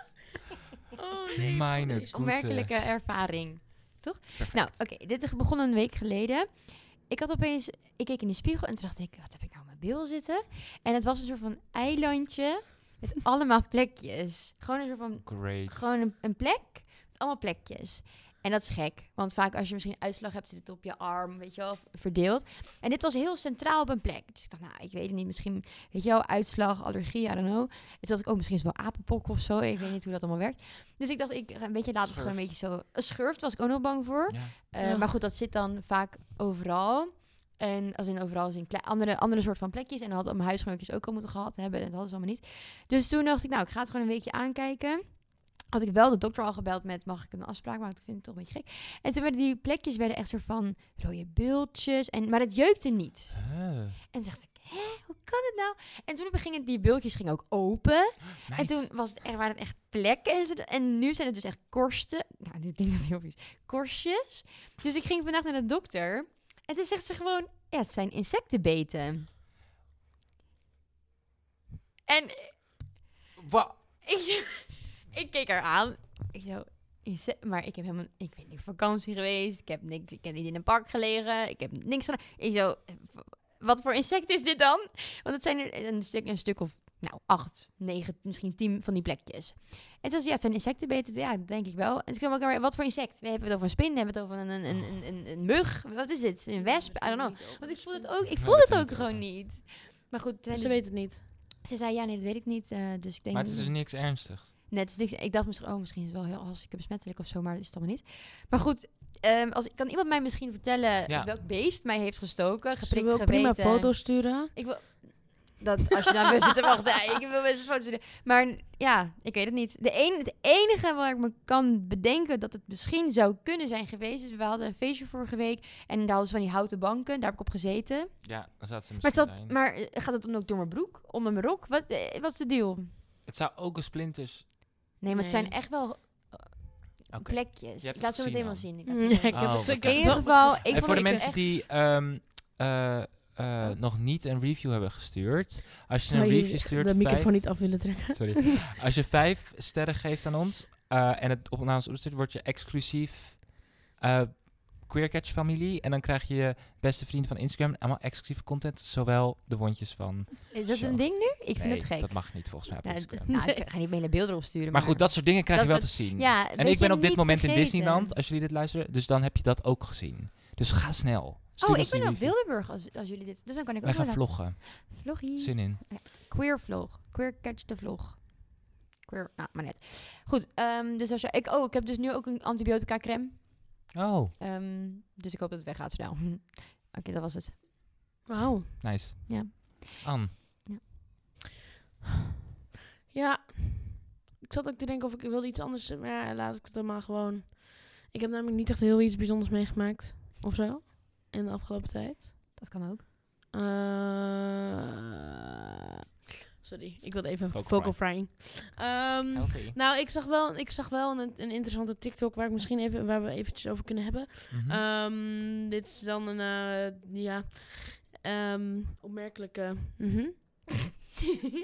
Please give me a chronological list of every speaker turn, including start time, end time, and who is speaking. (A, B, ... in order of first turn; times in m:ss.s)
0:01.0-0:02.1 A
0:01.4-0:02.7 B
0:02.1-1:09.3 C
0:04.4-0:04.8 B
0:15.2-0:15.9 B
0:32.0-0:32.4 B
0:34.3-0:34.6 B
0:34.8-0:35.1 A
0:53.4-0:54.0 B
0:58.4-0:58.9 B
1:12.0-1:13.0 C
1:13.4-1:13.8 B
1:13.8-1:44.1 C
1:36.5-1:38.2 A
1:38.4-1:39.2 B
1:40.5-1:41.2 A
1:43.3-1:44.5 B
1:44.7-2:12.9 C
1:51.1-1:51.3 B
1:52.8-1:54.6 A
2:08.2-2:09.5 B
2:13.2-2:14.5 B
2:15.0-2:21.5 C
2:15.1-2:15.5 A
2:17.1-2:43.5 B
2:18.8-2:21.3 A
2:26.1-2:28.6 A
2:40.5-2:48.2 C
2:44.7-2:52.3 B
2:51.6-3:07.6 C
2:53.8-2:55.8 B
3:03.9-3:04.3 B
3:08.3-3:08.8 A
3:08.8-3:10.3 B
3:09.3-3:10.8 C
3:13.1-3:22.3 A
3:22.6-3:23.0 C
3:23.5-3:24.7 A
3:26.6-3:40.9 A
3:27.5-3:28.0 B
3:29.3-3:29.8 B
3:34.5-3:34.8 B